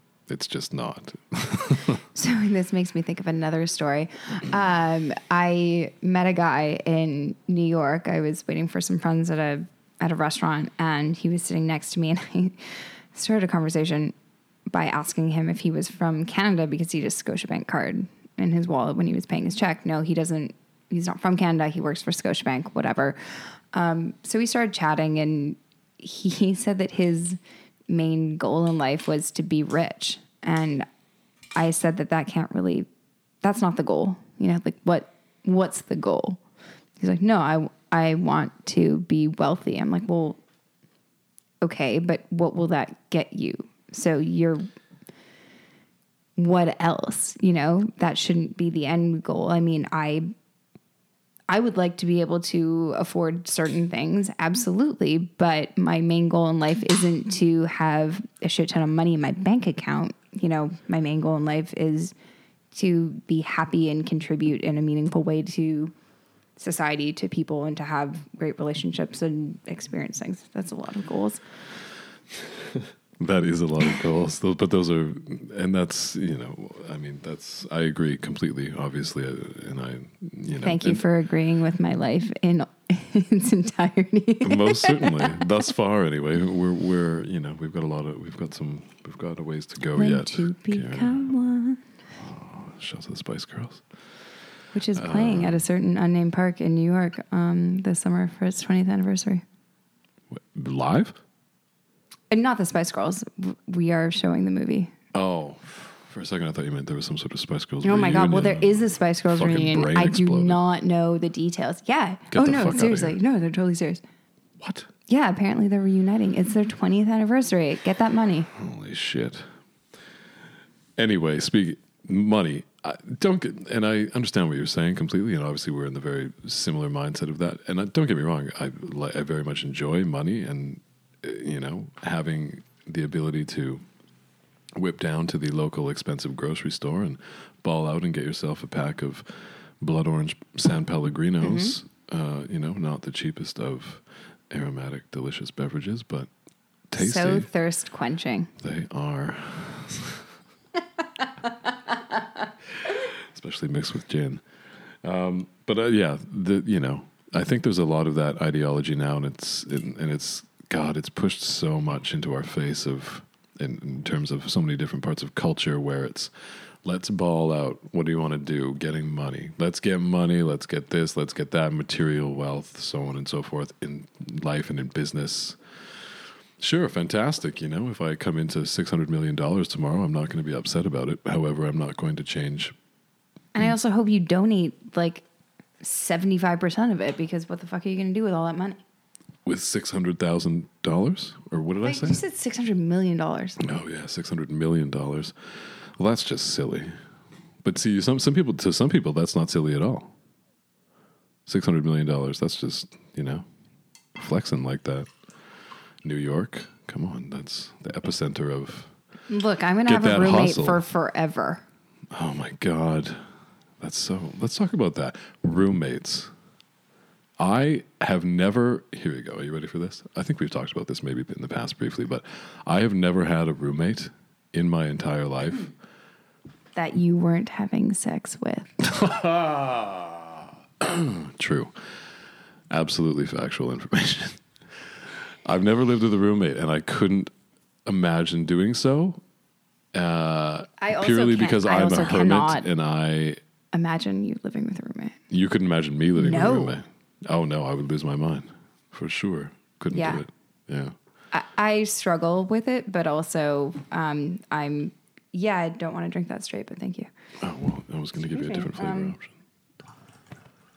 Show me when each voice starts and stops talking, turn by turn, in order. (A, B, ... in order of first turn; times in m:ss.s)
0:00.3-0:02.0 A
0:02.1-0:12.6 B
0:13.1-0:14.2 B
0:14.7-0:23.2 B
0:23.7-0:27.4 B
0:27.9-0:30.9 B
0:31.6-0:32.9 B
0:33.4-0:36.4 B
0:37.0-0:40.4 B
0:41.6-0:44.7 B
0:46.4-0:50.3 B
0:51.5-1:02.1 B
1:02.7-1:05.9 B
1:06.6-1:11.4 B
1:13.2-1:21.0 A
1:20.6-1:25.4 B
1:24.4-1:31.3 A
1:30.0-1:31.8 B
1:32.2-1:33.8 A
1:34.7-1:39.4 B
1:34.9-1:35.6 A
1:40.3-1:41.2 A
1:42.3-1:44.9 B
1:45.1-1:50.6 A
1:47.8-1:54.0 B
1:52.3-1:53.2 A
1:54.6-1:54.9 A
1:55.1-1:58.5 B
1:58.5-1:59.5 A
2:01.0-2:13.8 A
2:14.8-2:26.3 A
2:21.4-2:21.8 B
2:26.9-2:27.5 A
2:27.0-2:28.5 B
2:28.6-2:30.3 A
2:32.9-2:34.4 A
2:35.0-2:55.6 A
2:56.6-3:02.8 A
3:03.6-3:05.2 B
3:05.8-3:08.8 B
3:09.4-3:12.2 A
3:11.8-3:13.6 B
3:13.6-3:17.0 A
3:17.6-3:20.1 A
3:21.5-3:23.4 A
3:24.2-3:25.1 A
3:26.0-3:28.9 A
3:29.3-3:31.6 B
3:29.9-3:30.8 A
3:32.1-3:33.2 A
3:33.8-3:36.3 A
3:37.4-3:45.7 A
3:46.8-3:48.7 B
3:48.8-3:51.8 A
3:52.7-3:54.4 A
3:55.0-3:57.3 A
3:57.8-3:59.2 A
3:59.9-4:03.4 A
4:00.8-4:02.7 B
4:03.7-4:05.2 B
4:05.3-4:11.0 A
4:06.2-4:06.8 B
4:09.9-4:10.2 B
4:11.3-4:17.1 B
4:17.4-4:19.3 A
4:18.3-4:19.1 B